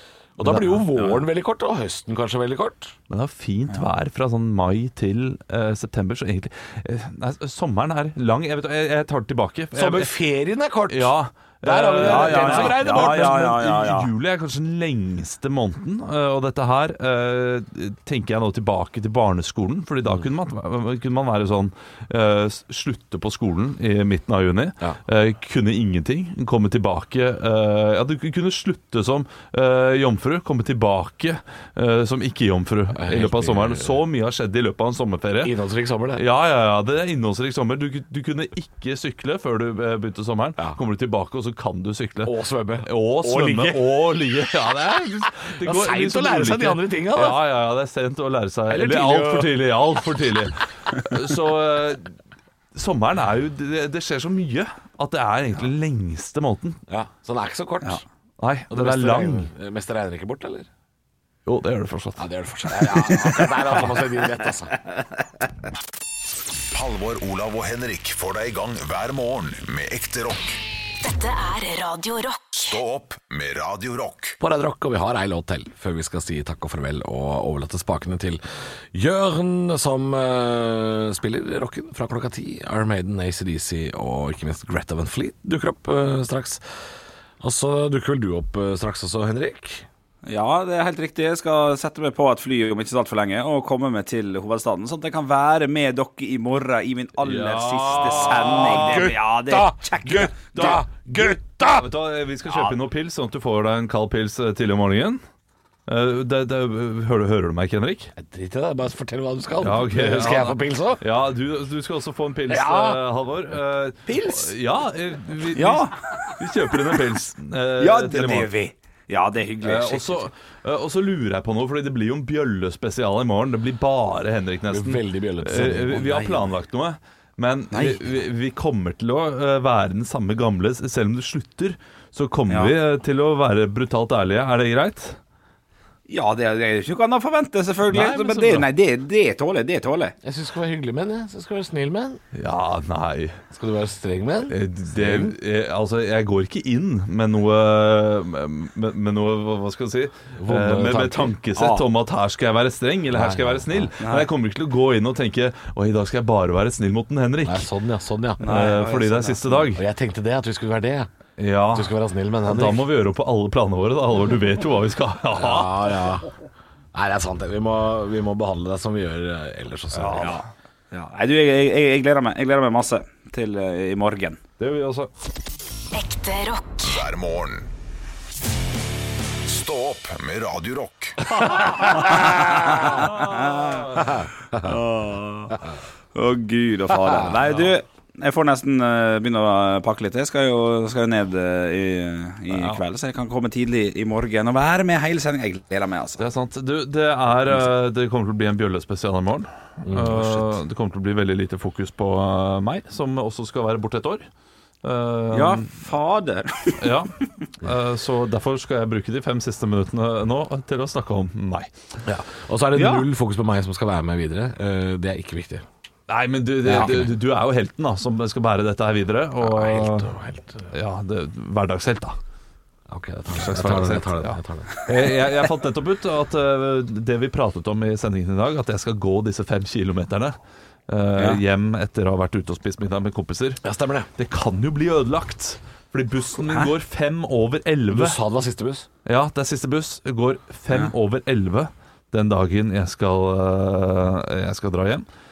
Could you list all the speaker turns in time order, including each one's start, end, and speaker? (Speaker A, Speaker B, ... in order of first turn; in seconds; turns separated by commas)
Speaker A: 0.4-2.9, Speaker B: 0.4-0.8, Speaker B: 3.1-10.2, Speaker A: 9.7-13.4, Speaker B: 10.9-35.5, Speaker C: 12.0-14.1, Speaker A: 32.9-34.0, Speaker A: 35.4-36.2, Speaker B: 36.1-52.2, Speaker A: 42.2-44.0, Speaker A: 45.6-47.4, Speaker A: 48.7-49.7, Speaker B: 52.8-56.8, Speaker A: 56.9-58.0, Speaker B: 58.4-59.5, Speaker A: 58.7-60.7, Speaker B: 61.5-62.2, Speaker A: 62.2-64.8, Speaker C: 63.2-63.5, Speaker D: 66.7-70.6, Speaker E: 71.0-72.6, Speaker D: 72.5-74.4, Speaker A: 74.4-78.4, Speaker A: 78.9-86.6, Speaker A: 87.4-89.9, Speaker C: 90.3-100.8, Speaker B: 97.2-99.2, Speaker A: 98.0-101.9, Speaker B: 100.6-100.8, Speaker B: 101.6-105.2, Speaker C: 102.5-102.7, Speaker B: 105.9-108.1, Speaker A: 108.2-111.0, Speaker B: 109.6-118.5, Speaker A: 112.5-113.0, Speaker C: 114.1-114.5, Speaker C: 115.5-116.0, Speaker C: 117.8-120.3, Speaker B: 119.6-135.2, Speaker A: 124.7-126.4, Speaker C: 127.7-128.0, Speaker C: 132.5-132.7, Speaker C: 136.1-140.2, Speaker B: 137.9-138.7, Speaker A: 140.2-142.2, Speaker B: 142.3-143.4, Speaker A: 143.5-145.4, Speaker B: 144.5-157.7, Speaker A: 150.4-151.4, Speaker C: 151.6-151.9, Speaker A: 153.1-153.9, Speaker C: 154.0-154.3, Speaker A: 157.4-158.6, Speaker C: 158.4-159.7, Speaker B: 158.4-159.8, Speaker A: 159.7-161.1, Speaker B: 161.4-165.9, Speaker A: 161.7-162.9, Speaker A: 165.3-166.3, Speaker A: 166.9-170.4, Speaker B: 169.9-170.5, Speaker C: 170.2-174.4, Speaker B: 174.6-175.1, Speaker E: 175.9-176.9, Speaker D: 176.8-177.7, Speaker D: 179.5-181.4, Speaker C: 181.9-184.0, Speaker B: 183.1-184.0, Speaker A: 183.9-184.7, Speaker C: 184.5-185.6, Speaker C: 186.2-196.2, Speaker A: 187.0-187.4, Speaker B: 192.5-192.8, Speaker B: 196.2-204.3, Speaker A: 199.8-200.4, Speaker B: 204.8-205.8, Speaker C: 205.3-206.8, Speaker B: 206.8-211.7, Speaker A: 212.1-215.7, Speaker C: 212.8-213.1, Speaker B: 216.1-220.1, Speaker A: 216.6-217.2, Speaker A: 219.4-220.7, Speaker B: 220.7-222.2, Speaker A: 222.9-224.7, Speaker B: 223.3-230.4, Speaker B: 230.9-233.7, Speaker A: 233.6-234.1, Speaker B: 234.2-238.2, Speaker A: 237.9-238.9, Speaker B: 239.1-245.1